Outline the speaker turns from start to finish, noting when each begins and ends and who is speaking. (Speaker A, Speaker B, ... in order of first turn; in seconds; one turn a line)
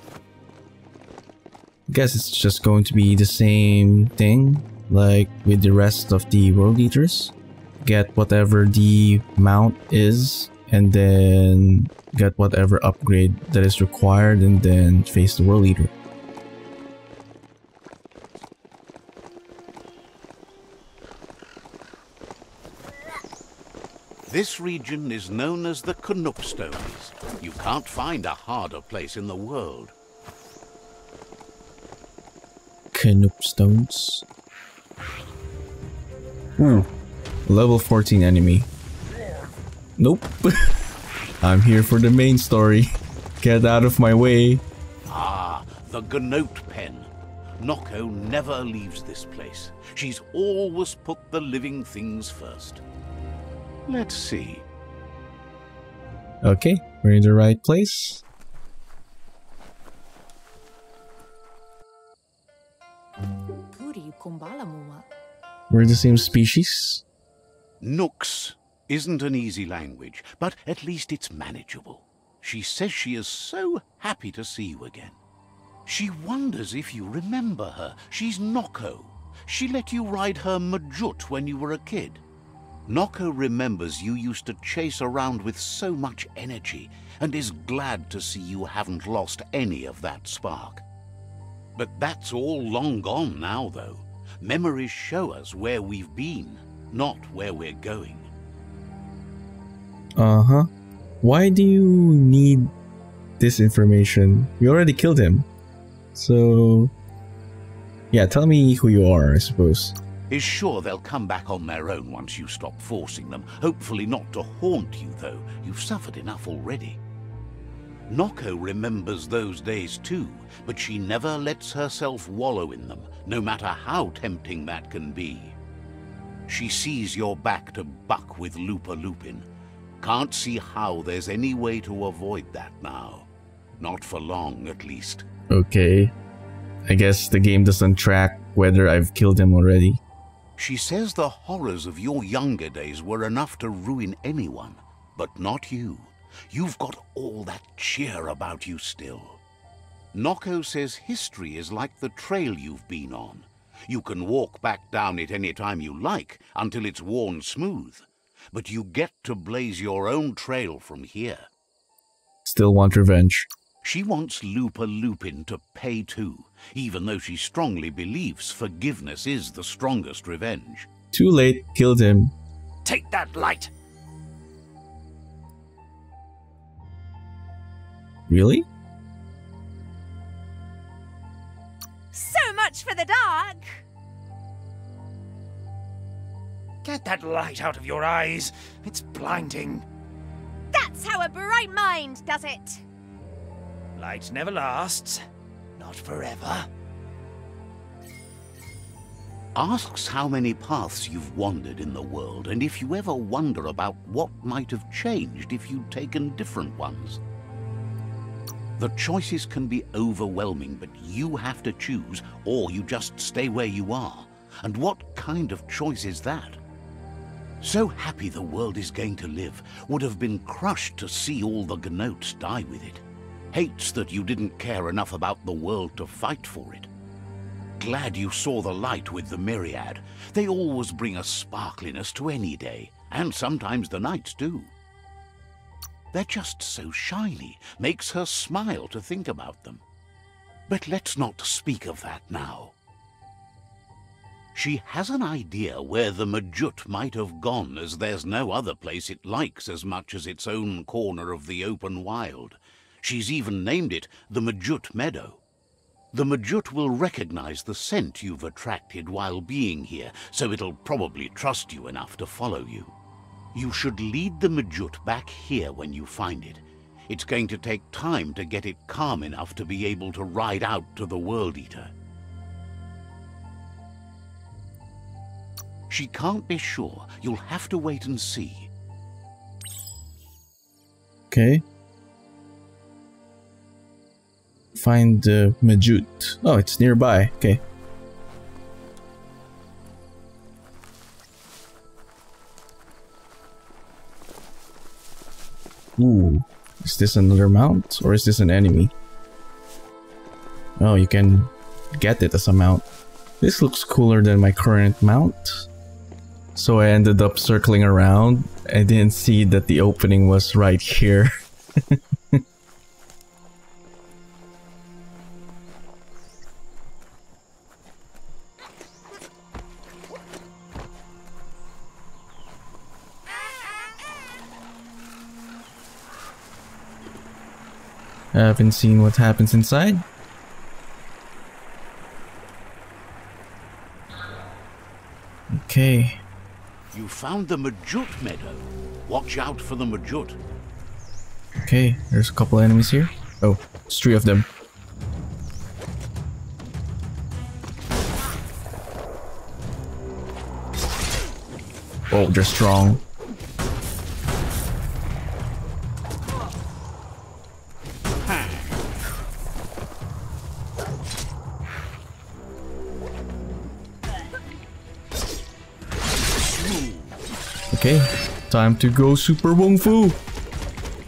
Speaker A: 1.9-15.9
Speaker B: 24.3-29.9
Speaker A: 32.9-34.2
Speaker A: 36.6-36.9
Speaker A: 37.5-38.7
Speaker A: 40.0-40.7
Speaker A: 41.4-44.6
Speaker B: 45.1-52.8
Speaker B: 53.9-54.6
Speaker A: 56.4-58.2
Speaker C: 63.7-65.1
Speaker A: 65.7-67.0
Speaker B: 67.8-75.2
Speaker B: 75.9-82.2
Speaker B: 82.9-90.8
Speaker B: 91.8-98.3
Speaker A: 100.2-100.7
Speaker A: 101.2-102.7
Speaker A: 103.4-105.5
Speaker A: 106.1-106.9
Speaker A: 108.1-110.0
Speaker B: 110.3-117.0
Speaker B: 118.1-125.6
Speaker B: 126.5-129.5
Speaker B: 130.0-135.3
Speaker A: 135.5-136.1
Speaker A: 136.9-140.0
Speaker B: 140.6-149.4
Speaker B: 150.1-161.5
Speaker A: 162.4-163.5
Speaker B: 163.8-170.9
Speaker A: 171.1-172.3
Speaker D: 172.8-173.7
Speaker A: 178.3-178.7
Speaker C: 182.1-183.6
Speaker D: 186.8-189.8
Speaker C: 190.8-192.8
Speaker D: 194.0-195.2
Speaker D: 195.8-196.7
Speaker B: 199.6-207.2
Speaker B: 208.8-216.6
Speaker B: 217.6-226.9
Speaker B: 227.8-234.7
Speaker B: 236.1-239.8
Speaker B: 240.7-242.8
Speaker B: 244.5-255.4
Speaker B: 256.1-262.9
Speaker B: 263.5-271.9
Speaker B: 275.9-278.7
Speaker A: 281.3-281.6
Speaker A: 284.7-287.6
Speaker A: 296.0-298.9
Speaker A: 300.8-302.9
Speaker A: 303.4-305.7
Speaker A: 306.6-312.4
Speaker A: 328.3-330.0
Speaker A: 335.5-336.2
Speaker B: 336.9-340.4
Speaker A: 341.6-344.5
Speaker A: 352.1-353.0
Speaker B: 366.5-367.2
Speaker A: 367.7-370.2